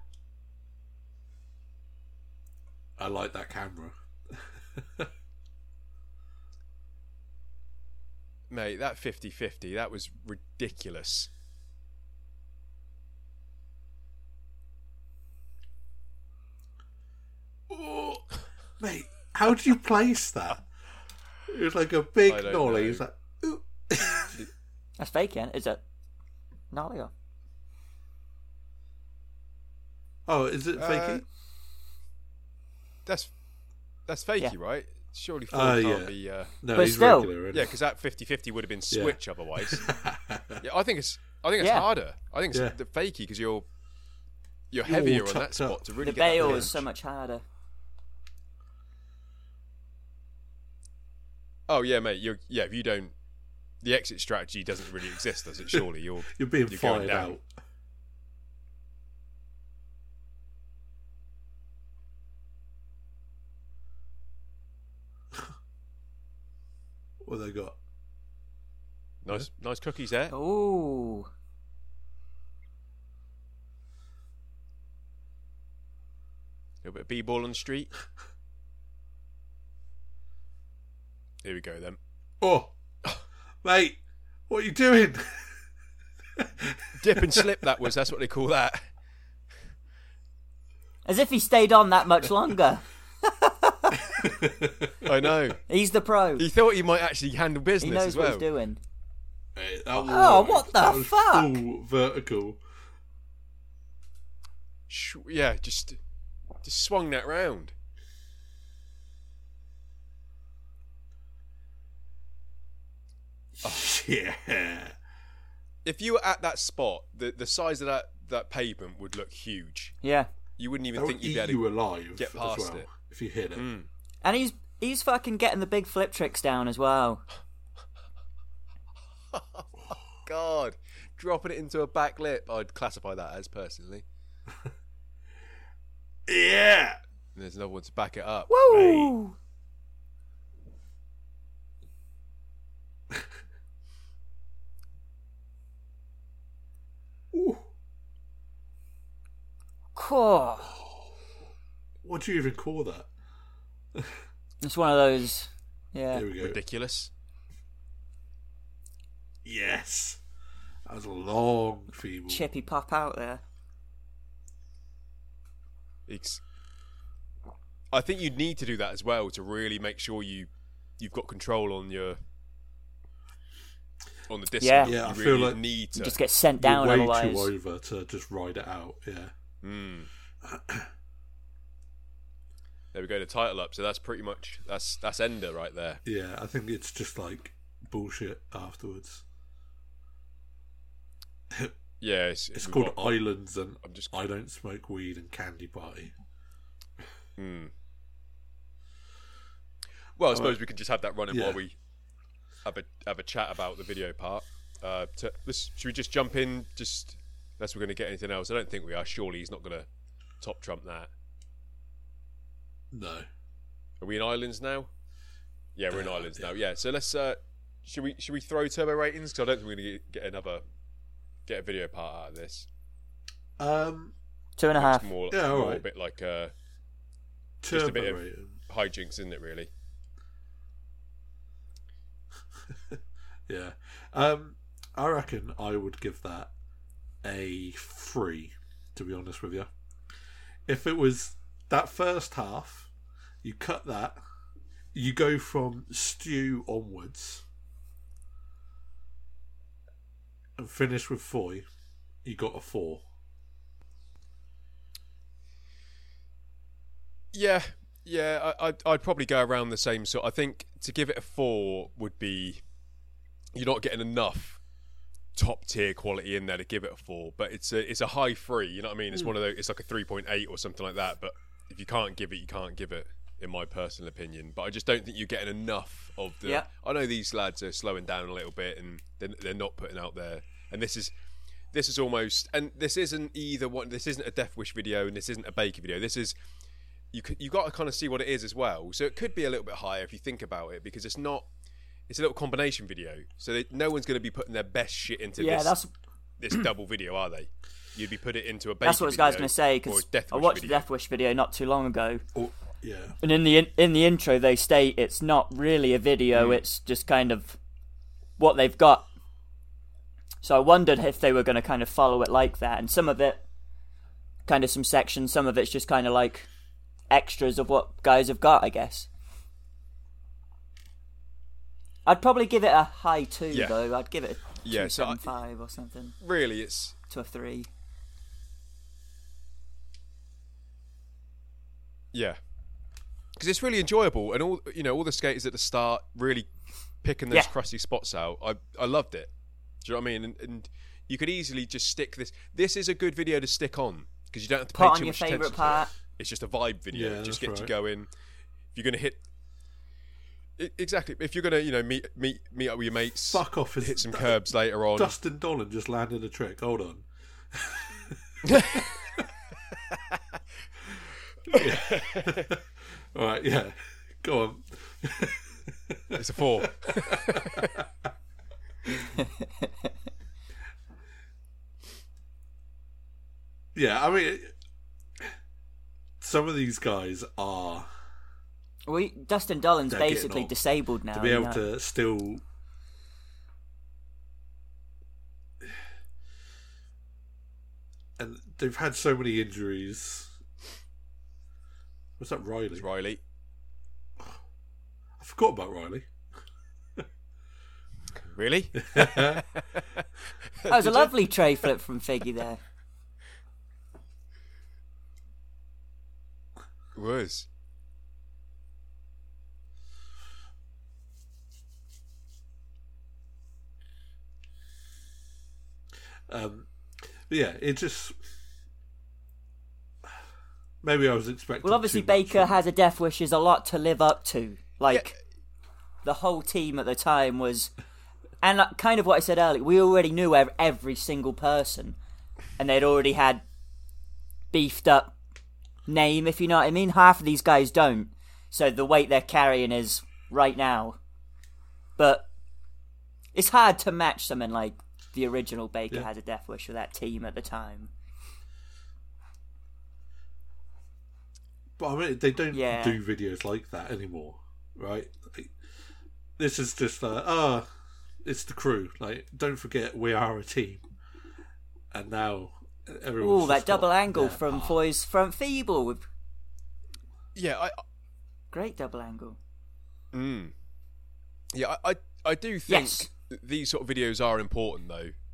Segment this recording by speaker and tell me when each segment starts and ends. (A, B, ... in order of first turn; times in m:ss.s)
0:03.0-0:05.1 A
0:08.5-0:11.3 B
0:17.7-0:20.6 A
0:21.5-0:24.4 A
0:22.3-0:23.0 B
0:25.0-0:25.8 C
0:26.7-0:27.1 C
0:30.3-0:31.2 A
0:30.8-0:31.2 B
0:33.1-0:33.3 B
0:34.1-0:36.6 B
0:35.5-0:37.7 A
0:36.8-0:37.3 C
0:37.5-0:39.9 B
0:38.9-0:40.6 A
0:40.6-0:43.7 B
0:41.6-0:41.9 C
0:44.7-0:46.8 B
0:44.8-0:46.7 A
0:46.0-0:47.4 C
0:51.7-0:53.1 B
0:53.8-0:57.4 B
0:55.7-0:57.5 A
1:07.2-1:07.8 A
1:09.2-1:10.3 B
1:10.3-1:11.3 C
1:16.8-1:17.9 B
1:21.4-1:22.0 B
1:22.4-1:22.7 A
1:23.6-1:25.6 A
1:26.4-1:27.6 A
1:27.0-1:28.8 B
1:31.1-1:34.2 C
1:34.1-1:35.4 A
1:35.0-1:35.6 B
1:35.7-1:36.5 C
1:36.4-1:38.5 B
1:37.8-1:38.8 C
1:39.6-1:42.6 A
1:40.0-1:41.6 C
1:44.9-1:46.0 B
1:46.6-1:47.7 B
1:53.6-1:55.0 A
1:55.8-2:00.0 B
2:00.0-2:00.3 C
2:00.6-2:01.6 B
2:00.9-2:03.7 A
2:02.2-2:02.9 B
2:03.6-2:03.9 B
2:04.2-2:07.2 C
2:09.3-2:14.0 B
2:16.3-2:17.0 A
2:17.4-2:18.5 B
2:18.5-2:19.4 C
2:18.7-2:19.2 A
2:27.3-2:27.7 A
2:30.0-2:30.8 C
2:32.0-2:33.1 A
2:34.0-2:34.2 A
2:34.6-2:36.3 C
2:36.1-2:36.6 A
2:36.4-2:37.1 B
2:39.4-2:40.2 A
2:40.9-2:42.5 A
2:42.3-2:43.4 C
2:46.1-2:46.4 B
2:47.9-2:52.2 B
2:54.3-2:56.2 B
2:54.6-2:54.9 C
2:54.8-2:55.6 A
2:56.0-2:57.5 C
2:56.6-2:59.3 A
2:59.6-3:00.1 B
3:00.4-3:00.9 A
3:02.9-3:06.0 B
3:06.0-3:09.2 A
3:11.5-3:11.8 A
3:12.0-3:13.1 B
3:12.5-3:16.1 A
3:13.8-3:14.1 B
3:17.4-3:17.7 B
3:20.2-3:21.8 B
3:20.3-3:20.6 A
3:21.3-3:21.6 A
3:22.6-3:29.9 B
3:30.4-3:31.1 B
3:32.9-3:33.3 A
3:34.0-3:34.9 B
3:35.8-3:40.6 B
3:35.9-3:36.5 A
3:41.5-3:42.7 B
3:43.6-3:44.1 A
3:44.6-3:45.1 C
3:44.8-3:46.5 B
3:45.3-3:45.8 A
3:47.6-3:48.6 A
3:47.7-3:49.7 B
3:52.7-3:56.5 A
3:57.2-3:59.7 A
4:00.7-4:02.9 A
4:03.4-4:04.2 A
4:04.9-4:07.4 A
4:10.6-4:11.6 A
4:12.2-4:13.0 A
4:17.3-4:22.6 B
4:23.6-4:24.6 B
4:25.4-4:41.1 B
4:41.7-4:46.4 B
4:47.1-4:51.5 B
4:52.1-4:55.8 B
4:55.4-4:55.9 C
4:56.4-5:00.8 B
4:58.8-5:02.2 C
5:02.4-5:03.2 A
5:03.2-5:07.6 C
5:06.3-5:06.6 B
5:08.4-5:09.1 C
5:10.4-5:13.4 C
5:14.5-5:16.5 C
5:17.1-5:19.1 C
5:22.1-5:26.2 C
5:24.6-5:25.4 B
5:26.2-5:27.0 B
5:27.1-5:27.7 C
5:32.1-5:32.4 B
5:33.4-5:36.5 B
5:37.0-5:39.3 B
5:39.8-5:48.1 B
5:44.8-5:45.9 C
5:46.9-5:47.7 A
5:48.7-5:49.2 B
5:50.6-5:55.2 B
5:53.3-5:54.4 A
5:55.0-5:59.3 A
5:58.4-5:58.9 B
5:59.9-6:00.2 B
6:01.4-6:02.5 B
6:01.5-6:07.9 A
6:06.2-6:07.8 B
6:09.1-6:09.9 C
6:13.8-6:14.5 A
6:16.2-6:17.9 A
6:18.9-6:21.7 C
6:19.9-6:20.5 A
6:21.1-6:22.4 A
6:28.2-6:30.3 A
6:32.2-6:32.9 A
6:32.7-6:33.2 B
6:35.2-6:36.1 A
6:38.1-6:40.0 B
6:38.8-6:39.5 A
6:40.6-6:41.1 B
6:40.7-6:42.6 C
6:47.0-6:47.5 B
6:56.3-6:58.2 A
7:00.8-7:02.6 A
7:01.6-7:05.2 C
7:06.0-7:07.7 C
7:08.4-7:12.0 C
7:12.6-7:13.4 C
7:14.5-7:15.2 C
7:15.9-7:21.0 C
7:22.0-7:22.3 C
7:23.4-7:27.9 C
7:31.8-7:35.5 A
7:32.5-7:33.0 C
7:36.4-7:37.7 A
7:38.2-7:40.8 A
7:41.9-7:44.8 A
7:43.2-7:46.0 C
7:47.4-7:47.8 B
7:48.5-7:49.4 C
7:50.1-7:50.5 B
7:51.5-7:55.1 B
7:52.7-7:53.1 C